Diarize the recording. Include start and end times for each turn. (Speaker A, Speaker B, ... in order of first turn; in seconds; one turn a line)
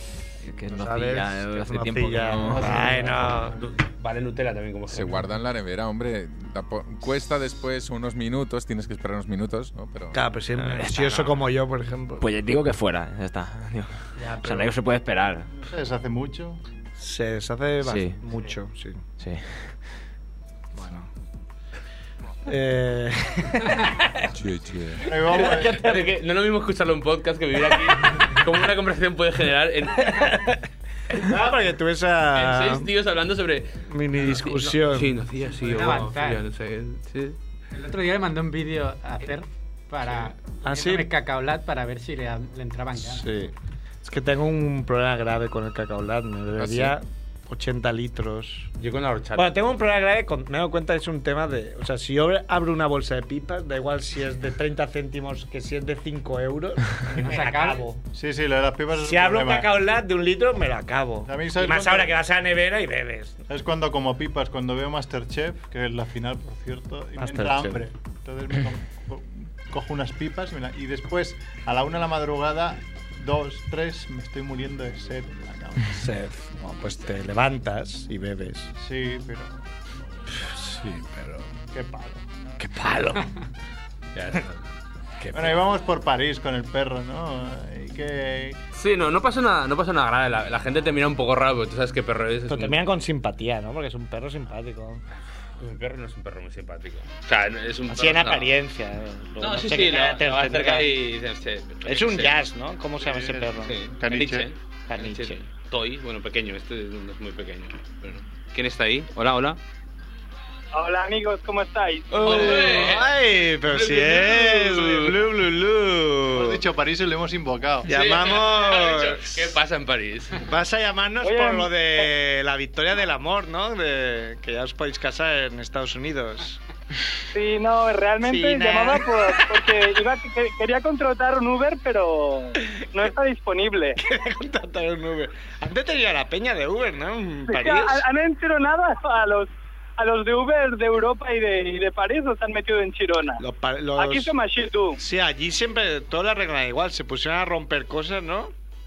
Speaker A: 0.4-3.2
Speaker B: 0.7-3.5
Speaker C: 2.5-3.6
Speaker D: 3.5-5.2
Speaker E: 4.9-10.2
Speaker B: 10.1-12.2
Speaker A: 10.5-11.4
Speaker A: 12.2-15.5
Speaker C: 15.5-16.6
Speaker B: 17.0-19.0
Speaker A: 17.8-18.2
Speaker A: 19.2-19.8
Speaker B: 20.7-21.1
Speaker B: 22.4-24.2
Speaker E: 24.4-24.9
Speaker A: 24.7-25.0
Speaker C: 25.0-25.9
Speaker B: 25.2-26.0
Speaker D: 25.3-30.3
Speaker B: 30.0-30.6
Speaker B: 31.1-32.9
Speaker D: 32.3-37.4
Speaker B: 33.9-35.1
Speaker F: 35.6-36.4
Speaker F: 37.7-43.3
Speaker B: 40.6-41.1
Speaker B: 43.0-43.5
Speaker B: 44.0-48.7
Speaker E: 46.6-47.0
Speaker D: 48.8-49.5
Speaker B: 49.3-58.0
Speaker F: 57.2-57.8
Speaker C: 58.1-59.7
Speaker B: 59.0-63.4
Speaker C: 61.3-62.1
Speaker C: 63.5-76.0
Speaker B: 67.2-67.8
Speaker B: 75.9-78.7
Speaker C: 78.8-79.6
Speaker B: 80.3-81.5
Speaker C: 81.7-82.2
Speaker B: 82.6-83.3
Speaker D: 84.1-84.6
Speaker B: 85.2-85.6
Speaker C: 85.3-88.6
Speaker D: 88.7-92.8
Speaker B: 92.5-95.0
Speaker D: 95.6-98.5
Speaker B: 97.9-100.9
Speaker D: 99.4-102.3
Speaker B: 101.8-103.7
Speaker C: 103.0-104.5
Speaker D: 103.6-109.6
Speaker B: 104.9-105.4
Speaker G: 110.7-112.2
Speaker B: 112.1-116.6
Speaker D: 112.2-113.1
Speaker D: 113.7-115.1
Speaker C: 116.3-117.9
Speaker B: 117.8-119.4
Speaker D: 117.9-120.4
Speaker B: 120.4-126.6
Speaker G: 121.2-121.7
Speaker G: 127.3-134.0
Speaker B: 128.3-129.1
Speaker B: 134.0-138.0
Speaker G: 137.5-143.4
Speaker B: 143.4-144.3
Speaker G: 144.0-145.0
Speaker B: 145.0-148.5